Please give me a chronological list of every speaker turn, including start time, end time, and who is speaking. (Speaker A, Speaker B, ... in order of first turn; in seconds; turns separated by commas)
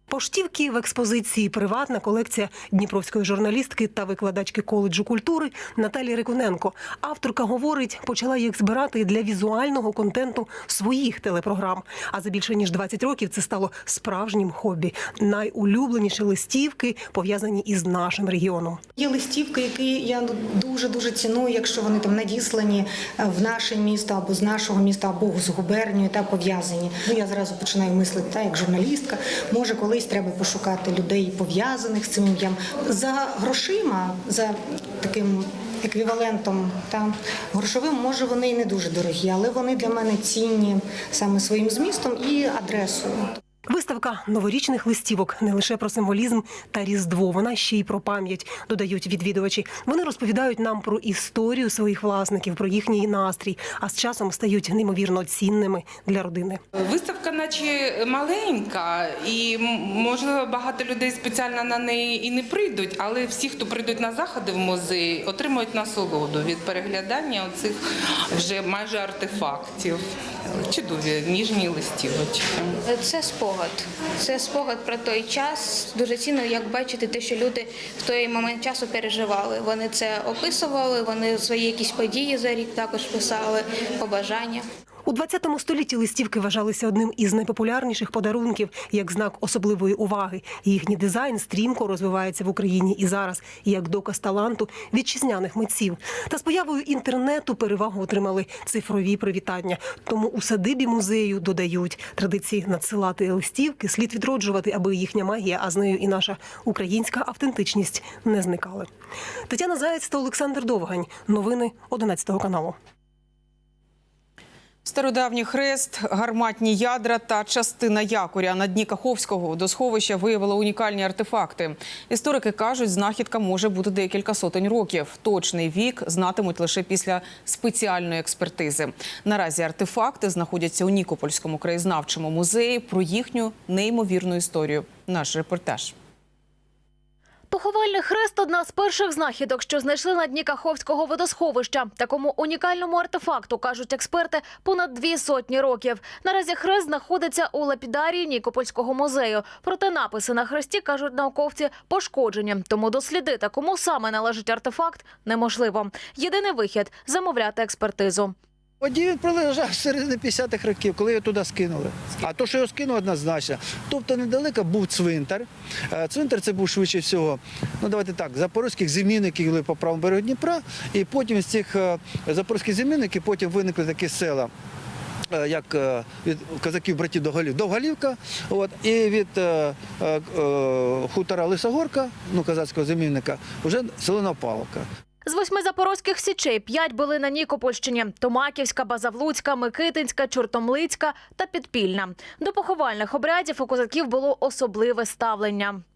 Speaker A: 0.1-18.8, Speaker B: 19.0-43.3, Speaker A: 43.7-56.6, Speaker C: 56.9-67.8, Speaker C: 68.3-72.7, Speaker D: 72.9-84.7, Speaker A: 85.1-108.9, Speaker A: 109.5-112.8, Speaker E: 114.8-135.9, Speaker F: 137.5-158.3, Speaker G: 158.8-174.5, Speaker G: 175.3-184.9, Speaker F: 185.2-195.8